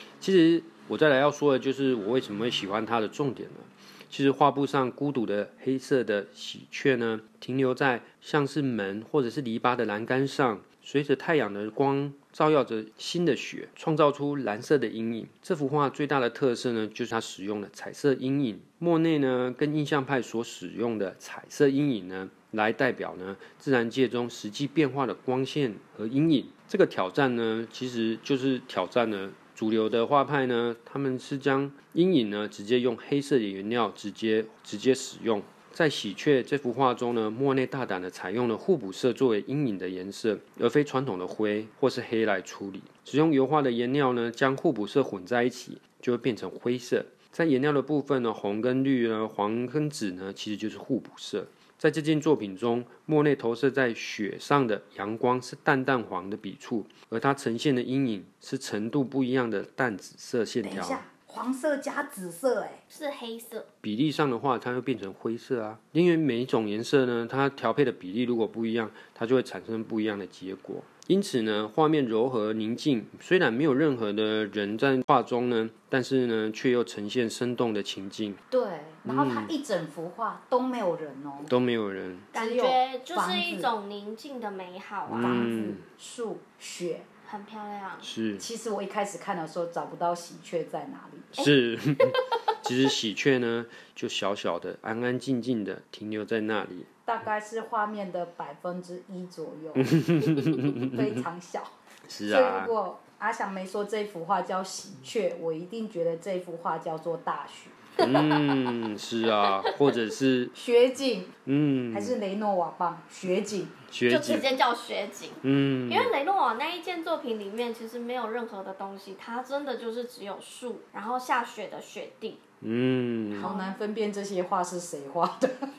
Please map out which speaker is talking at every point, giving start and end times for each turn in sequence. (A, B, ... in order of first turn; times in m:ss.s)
0:00.2-1:01.0 A
1:00.6-1:02.8 B
1:02.9-1:03.7 C
1:03.8-1:18.4 A
1:18.5-1:21.5 B
1:19.0-1:19.5 A
1:21.4-1:22.3 A
1:22.3-1:25.5 C
1:22.3-1:23.7 B
1:25.1-1:25.8 A
1:25.2-1:27.1 B
1:27.3-1:28.1 C
1:28.0-1:28.4 A
1:28.4-1:31.3 B
1:31.3-1:36.9 A
1:32.0-1:32.3 C
1:37.1-1:41.7 B
1:39.8-1:41.2 A
1:42.1-1:42.7 A
1:42.2-1:47.8 B
1:48.0-1:50.6 A
1:48.0-1:48.7 C
1:49.4-1:49.7 C
1:50.6-1:51.3 B
1:51.5-1:52.2 A
1:51.9-1:53.8 B
1:53.9-1:54.5 A
1:54.1-2:02.4 C
1:55.4-1:56.1 A
2:02.6-2:03.5 A
2:03.4-2:03.8 C
2:03.4-2:05.6 B